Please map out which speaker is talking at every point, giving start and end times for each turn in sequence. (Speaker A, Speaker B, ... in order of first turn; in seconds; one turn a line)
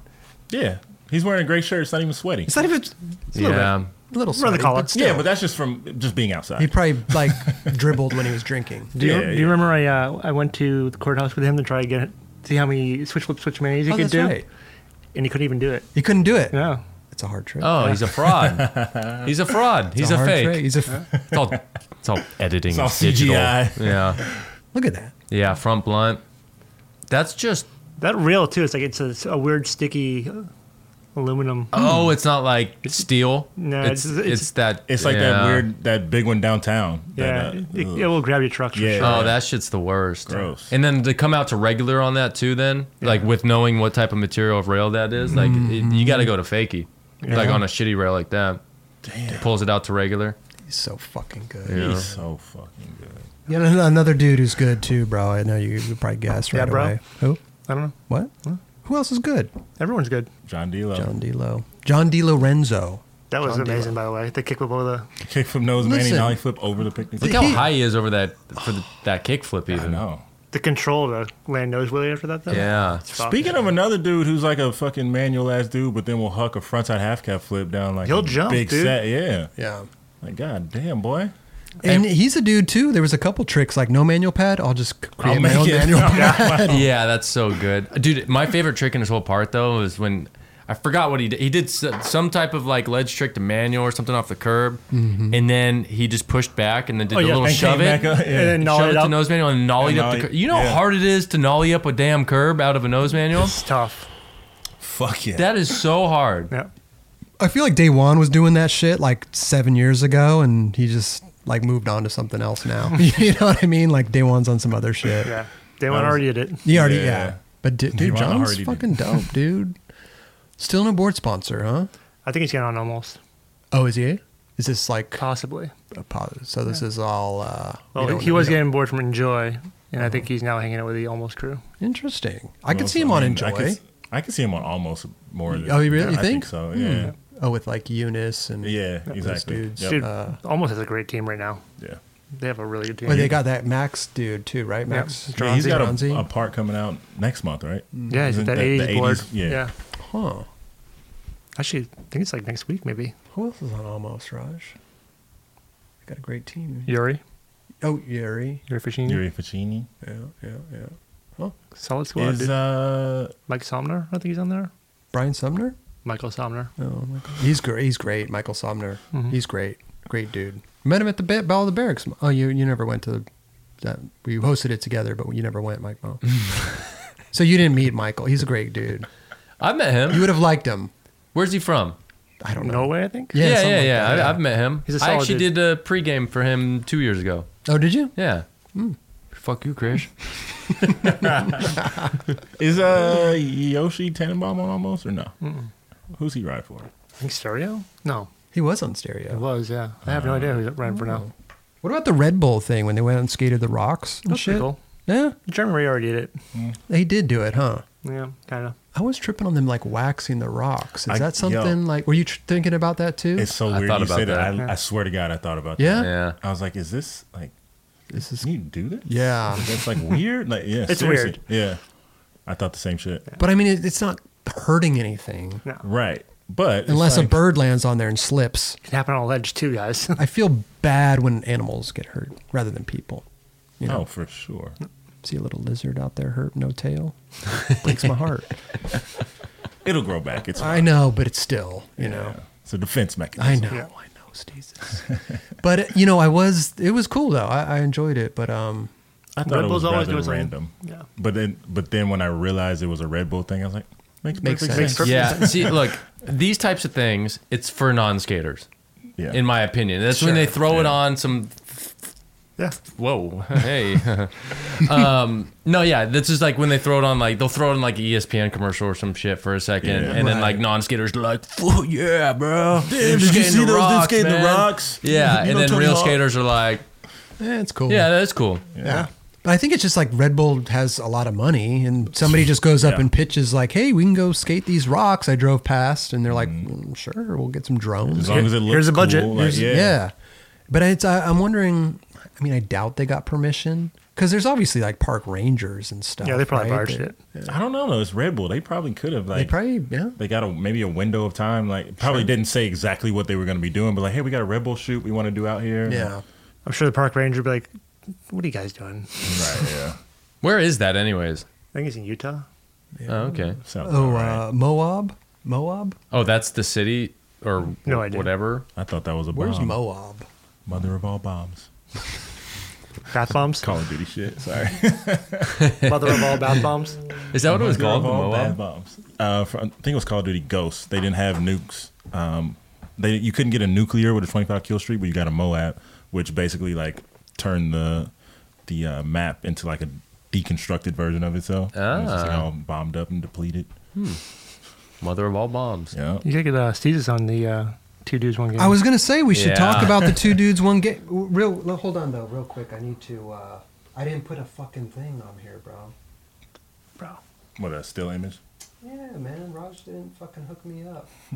Speaker A: 0.5-2.6
Speaker B: 2.5-5.2
Speaker C: 3.3-3.9
Speaker D: 4.3-4.9
Speaker A: 4.9-7.7
Speaker B: 6.6-8.9
Speaker D: 8.9-14.4
Speaker A: 9.0-9.7
Speaker B: 13.9-14.4
Speaker D: 15.1-15.9
Speaker B: 15.9-16.6
Speaker D: 16.5-16.8
Speaker B: 17.1-18.0
Speaker C: 17.6-24.2
Speaker A: 18.1-19.3
Speaker B: 19.9-21.0
Speaker A: 21.1-21.6
Speaker A: 22.7-24.4
Speaker B: 24.7-25.1
Speaker C: 25.3-26.2
Speaker C: 27.1-27.7
Speaker D: 28.0-30.5
Speaker D: 31.1-31.7
Speaker C: 31.7-35.7
Speaker D: 33.5-34.5
Speaker A: 34.9-38.1
Speaker D: 37.1-39.3
Speaker A: 38.7-39.4
Speaker C: 39.0-48.6
Speaker A: 40.3-40.7
Speaker B: 45.3-46.3
Speaker D: 47.2-47.5
Speaker B: 47.3-47.6
Speaker A: 49.0-49.5
Speaker C: 49.3-50.4
Speaker B: 50.7-52.1
Speaker C: 51.6-52.1
Speaker A: 51.7-53.3
Speaker B: 53.5-57.4
Speaker D: 56.5-57.0
Speaker D: 57.7-58.6
Speaker B: 58.8-59.5
Speaker D: 59.8-60.3
Speaker A: 60.5-61.1
Speaker B: 60.9-63.9
Speaker D: 63.3-65.1
Speaker A: 65.2-67.6
Speaker B: 65.8-66.4
Speaker B: 67.2-67.6
Speaker C: 67.2-70.0
Speaker A: 69.7-70.2
Speaker D: 70.5-73.5
Speaker C: 72.5-73.0
Speaker A: 73.2-79.5
Speaker D: 78.0-79.0
Speaker B: 79.6-79.9
Speaker A: 80.2-81.3
Speaker B: 81.8-86.9
Speaker A: 85.2-86.9
Speaker D: 86.1-86.5
Speaker C: 86.6-103.6
Speaker B: 94.9-95.4
Speaker D: 97.1-99.2
Speaker A: 97.4-98.6
Speaker A: 99.8-100.8
Speaker D: 103.3-104.1
Speaker A: 104.8-105.5
Speaker C: 105.3-106.5
Speaker B: 107.4-115.4
Speaker D: 115.2-116.7
Speaker A: 115.9-117.4
Speaker B: 116.6-119.8
Speaker A: 117.9-118.9
Speaker B: 120.6-121.9
Speaker D: 122.2-123.2
Speaker B: 123.7-125.2
Speaker D: 125.2-125.7
Speaker B: 125.9-128.6
Speaker D: 127.9-131.6
Speaker B: 131.8-133.8
Speaker A: 132.7-137.1
Speaker B: 135.5-140.4
Speaker A: 138.6-140.0
Speaker D: 139.8-141.6
Speaker D: 142.3-143.4
Speaker B: 143.1-146.3
Speaker A: 143.1-143.4
Speaker D: 144.9-146.0
Speaker A: 145.3-149.7
Speaker D: 148.1-149.7
Speaker B: 150.0-150.5
Speaker D: 151.6-153.1
Speaker B: 153.3-154.7
Speaker B: 156.0-156.9
Speaker D: 156.9-157.2
Speaker B: 157.8-158.6
Speaker D: 158.7-159.2
Speaker A: 159.0-159.9
Speaker B: 160.0-161.5
Speaker D: 161.8-162.5
Speaker A: 162.2-163.3
Speaker D: 163.5-164.7
Speaker B: 165.1-165.8
Speaker D: 166.0-166.7
Speaker B: 166.8-173.2
Speaker B: 173.8-176.7
Speaker B: 177.3-179.1
Speaker C: 179.6-180.3
Speaker B: 180.1-180.9
Speaker C: 181.3-182.0
Speaker B: 182.4-184.4
Speaker D: 182.6-183.3
Speaker C: 183.4-187.5
Speaker D: 184.9-185.5
Speaker B: 187.6-188.1
Speaker C: 188.1-188.4
Speaker C: 189.3-190.2
Speaker C: 190.8-191.3
Speaker A: 192.6-195.3
Speaker D: 195.4-195.7
Speaker A: 196.1-196.9
Speaker D: 197.2-198.3
Speaker B: 198.5-199.4
Speaker D: 199.3-201.3
Speaker A: 200.1-200.6
Speaker B: 201.0-201.3
Speaker B: 201.8-205.3
Speaker D: 204.3-204.8
Speaker D: 205.5-206.3
Speaker B: 206.9-207.8
Speaker D: 208.0-208.8
Speaker B: 208.9-213.5
Speaker A: 211.1-211.8
Speaker A: 213.3-217.5
Speaker C: 213.7-214.6
Speaker B: 215.8-216.1
Speaker C: 215.9-216.4
Speaker B: 218.1-218.5
Speaker A: 218.4-221.8
Speaker B: 219.1-219.8
Speaker D: 220.9-221.4
Speaker A: 222.4-223.3
Speaker B: 223.4-225.6
Speaker A: 225.8-227.4
Speaker B: 226.8-228.8
Speaker D: 228.9-230.2
Speaker B: 230.2-233.2
Speaker A: 233.8-234.8
Speaker B: 235.2-238.5
Speaker A: 239.8-240.9
Speaker B: 240.6-242.4
Speaker A: 242.0-243.7
Speaker B: 243.4-245.0
Speaker B: 245.6-248.9
Speaker A: 249.3-255.7
Speaker D: 249.4-251.1
Speaker B: 254.4-255.4
Speaker D: 254.7-255.7
Speaker C: 255.0-258.7
Speaker A: 259.2-259.4
Speaker C: 259.3-261.9
Speaker B: 260.1-260.5
Speaker A: 260.6-261.0
Speaker C: 262.8-276.8
Speaker A: 269.8-270.2
Speaker B: 270.0-270.6
Speaker A: 272.8-276.2
Speaker B: 277.4-278.1
Speaker C: 277.9-278.7
Speaker A: 278.7-279.1
Speaker B: 278.8-288.5
Speaker A: 282.8-283.1
Speaker A: 286.3-286.6
Speaker A: 288.1-290.0
Speaker D: 288.2-289.4
Speaker B: 289.3-290.1
Speaker B: 290.7-297.5
Speaker D: 296.2-297.2
Speaker A: 297.4-299.5
Speaker B: 299.3-300.1
Speaker A: 300.1-306.1
Speaker B: 305.9-306.2
Speaker D: 306.6-307.7
Speaker D: 308.3-309.7
Speaker A: 309.2-310.0
Speaker C: 310.4-311.4
Speaker D: 311.7-312.4
Speaker B: 313.0-316.0
Speaker C: 313.1-313.6
Speaker A: 313.6-314.4
Speaker C: 316.1-318.6
Speaker D: 317.9-318.3
Speaker A: 318.7-319.8
Speaker B: 319.3-320.3
Speaker A: 320.6-321.7
Speaker D: 323.1-323.7
Speaker A: 323.6-326.2
Speaker C: 325.6-325.9
Speaker D: 325.8-327.1
Speaker C: 327.3-328.6
Speaker A: 327.3-338.1
Speaker A: 338.6-343.7
Speaker C: 341.7-342.4
Speaker C: 343.9-344.2
Speaker C: 345.0-345.9
Speaker A: 345.9-346.2
Speaker D: 346.2-348.8
Speaker B: 348.6-355.9
Speaker C: 349.3-350.1
Speaker A: 357.6-358.4
Speaker B: 358.8-361.1